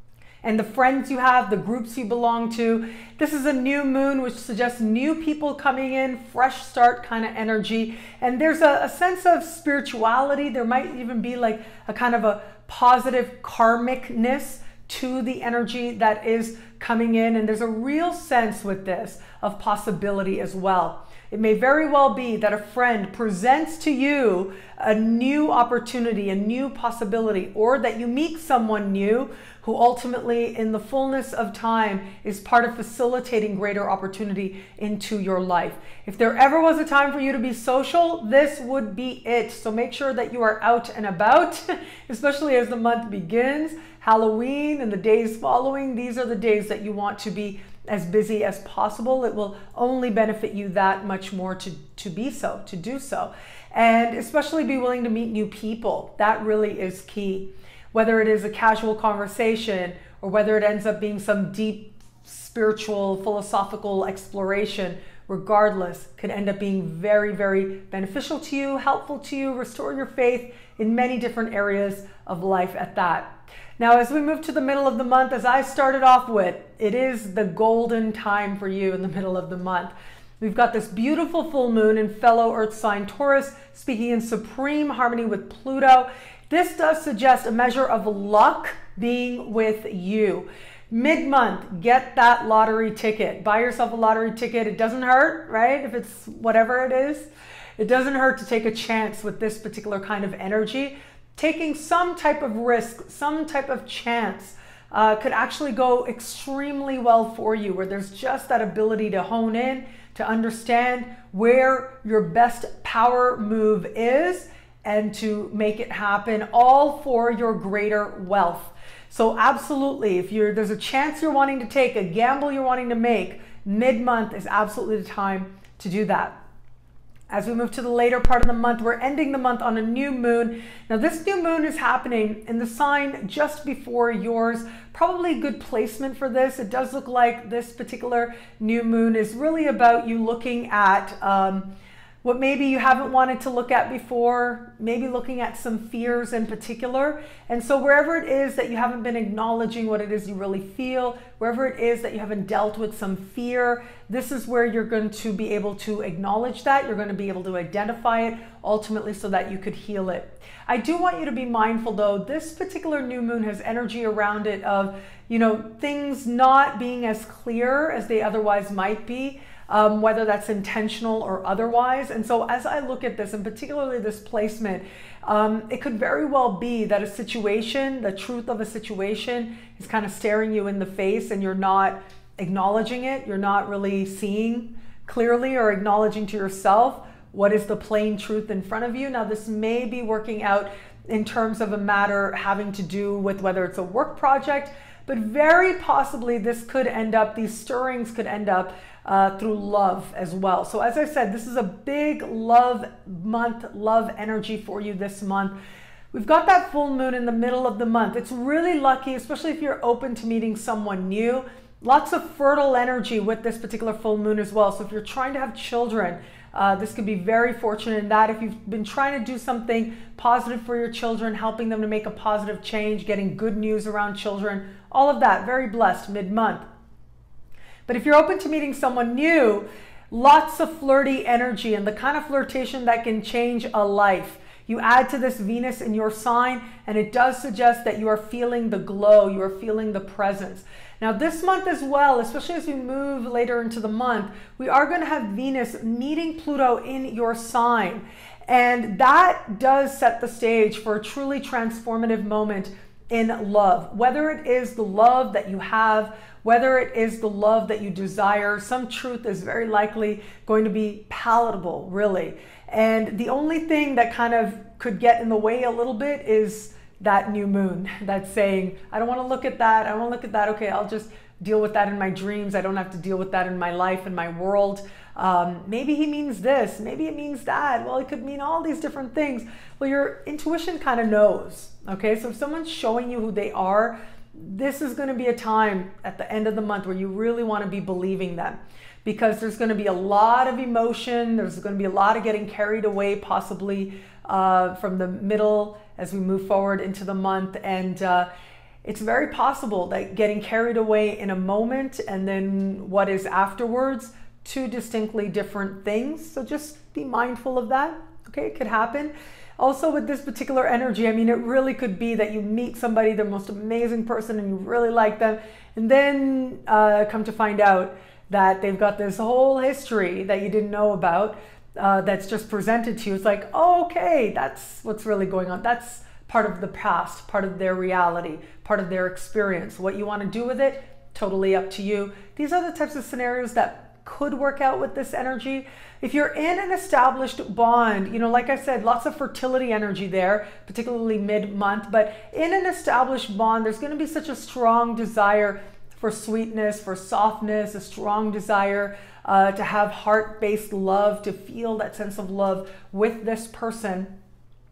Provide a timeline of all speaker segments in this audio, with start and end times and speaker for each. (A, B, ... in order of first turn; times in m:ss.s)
0:00.4-2:06.4 A
2:07.3-2:21.7 A
2:22.2-3:25.5 A
3:26.1-3:46.7 A
3:47.9-4:58.3 A
4:58.8-5:54.1 A